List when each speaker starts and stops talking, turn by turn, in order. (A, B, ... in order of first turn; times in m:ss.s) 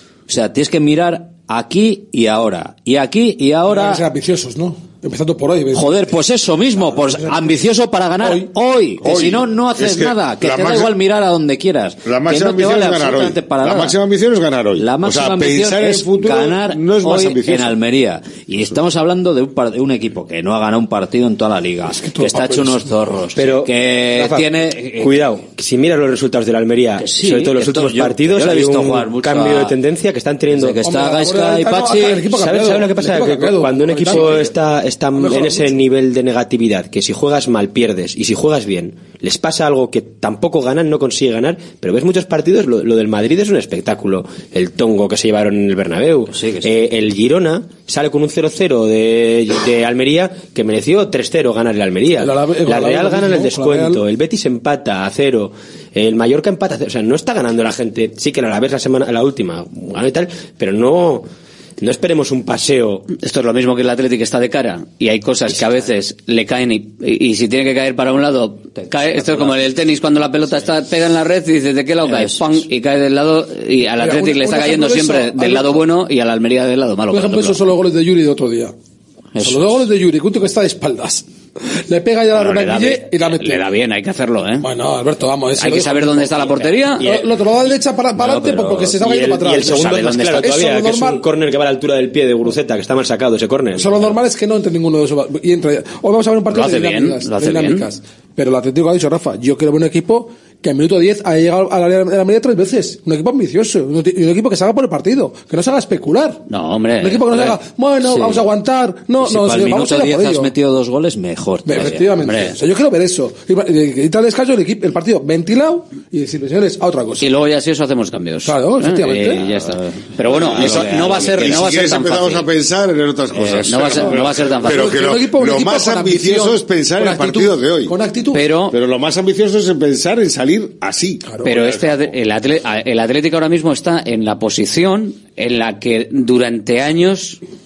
0:00.3-0:04.0 A
0:03.6-0:06.2 B
0:05.7-0:14.0 A
0:06.8-0:07.6 B
0:08.2-0:08.5 B
0:09.0-0:10.9 C
0:12.0-0:17.8 C
0:14.8-0:25.1 A
0:18.5-0:18.8 C
0:21.8-0:22.9 B
0:23.4-0:23.7 D
0:24.1-0:24.5 B
0:25.0-0:30.8 D
0:27.0-0:29.8 A
0:30.5-0:32.3 A
0:30.7-0:34.5 B
0:32.3-1:01.2 D
0:35.1-0:35.8 B
0:46.3-0:46.7 A
0:52.1-0:54.0 B
1:01.8-1:03.0 D
1:03.1-1:17.6 E
1:08.8-1:09.6 A
1:12.0-1:12.6 A
1:14.0-1:15.8 B
1:17.1-1:18.7 B
1:19.4-1:19.8 A
1:19.4-1:21.2 B
1:21.9-1:23.6 B
1:22.3-1:24.6 E
1:24.6-1:31.2 B
1:25.6-1:27.0 E
1:28.2-1:29.0 A
1:29.0-1:34.1 D
1:29.7-1:30.4 E
1:33.7-1:46.4 B
1:36.5-1:37.9 E
1:46.5-1:47.5 E
1:47.0-1:50.5 B
1:48.0-1:48.4 A
1:49.2-1:52.2 A
1:51.6-1:57.3 B
1:51.8-1:52.5 E
1:57.2-2:02.4 E
1:58.4-1:59.6 B
1:59.7-2:01.6 A
2:00.3-2:07.9 C
2:03.4-2:03.6 A
2:03.6-2:04.9 E
2:04.0-2:08.4 B
2:08.3-2:08.7 E
2:08.7-2:11.8 C
2:11.2-2:11.6 B
2:11.4-2:17.4 E